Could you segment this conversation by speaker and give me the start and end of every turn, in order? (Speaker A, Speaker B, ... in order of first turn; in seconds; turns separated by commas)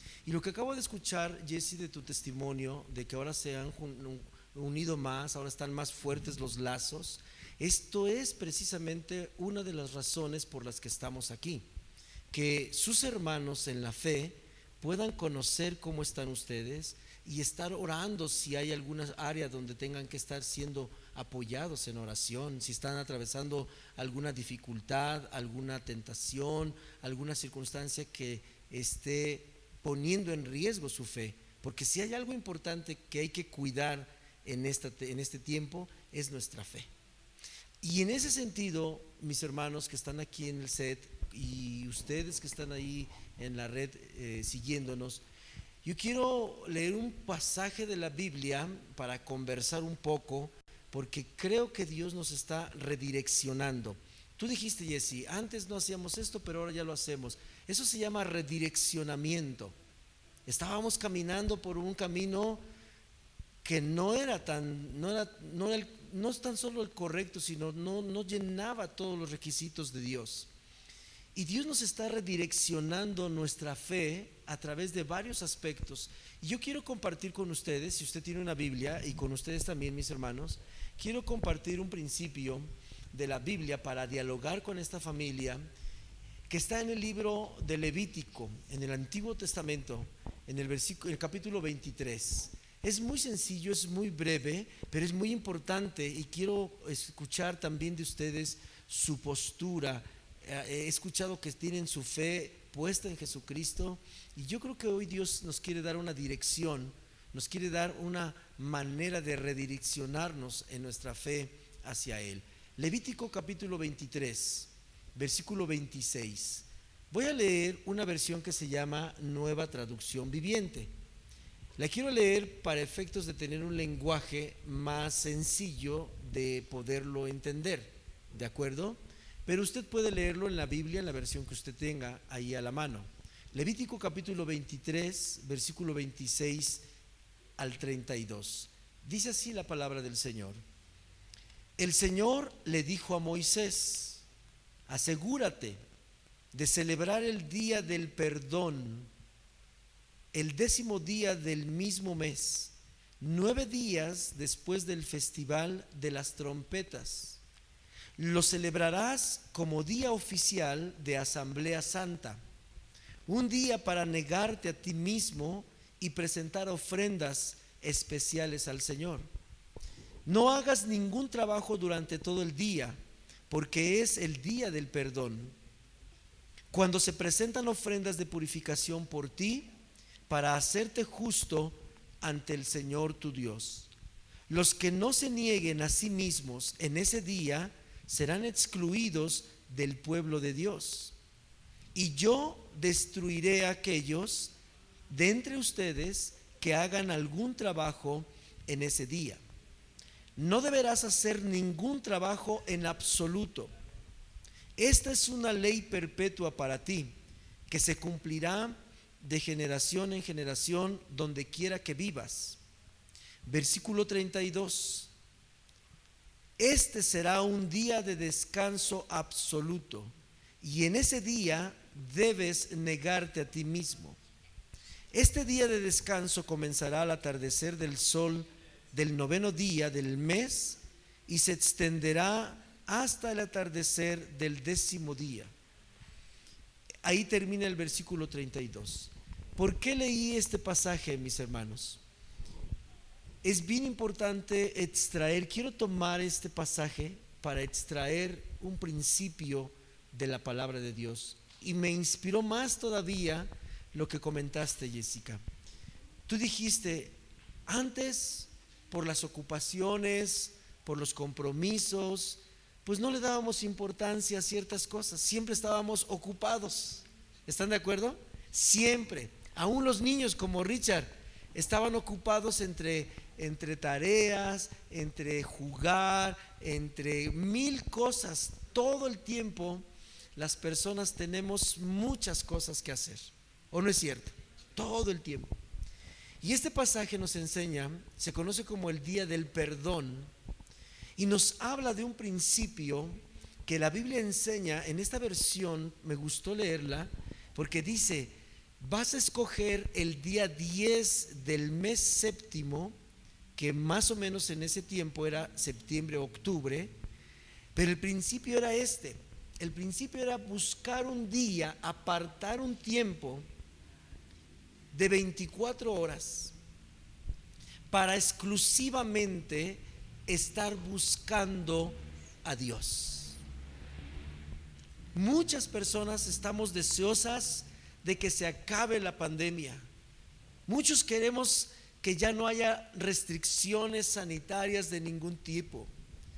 Speaker A: 0.2-11.7, Speaker A: 12.3-36.9, Speaker A: 37.8-45.2, Speaker A: 45.8-59.8, Speaker A: 60.5-62.6, Speaker A: 63.6-70.5, Speaker A: 71.3-85.7, Speaker A: 86.5-120.9, Speaker A: 121.8-136.8, Speaker A: 137.6-140.6, Speaker A: 141.8-144.2, Speaker A: 144.9-145.8, Speaker A: 146.5-149.1, Speaker A: 150.3-157.4, Speaker A: 158.2-162.4, Speaker A: 163.3-169.3, Speaker A: 170.3-173.0, Speaker A: 173.5-175.5, Speaker A: 176.7-179.7, Speaker A: 180.3-183.9, Speaker A: 184.5-191.2, Speaker A: 191.9-194.5, Speaker A: 195.1-199.4, Speaker A: 200.4-203.7, Speaker A: 204.8-207.1, Speaker A: 207.7-212.6, Speaker A: 213.4-215.1, Speaker A: 216.6-224.2, Speaker A: 225.1-235.5, Speaker A: 237.0-242.0, Speaker A: 243.4-255.4, Speaker A: 256.3-279.8, Speaker A: 280.4-285.6, Speaker A: 286.4-290.3, Speaker A: 291.2-303.0, Speaker A: 303.6-306.9, Speaker A: 307.8-313.5, Speaker A: 314.9-316.6, Speaker A: 317.9-323.4, Speaker A: 325.1-329.9, Speaker A: 330.7-335.9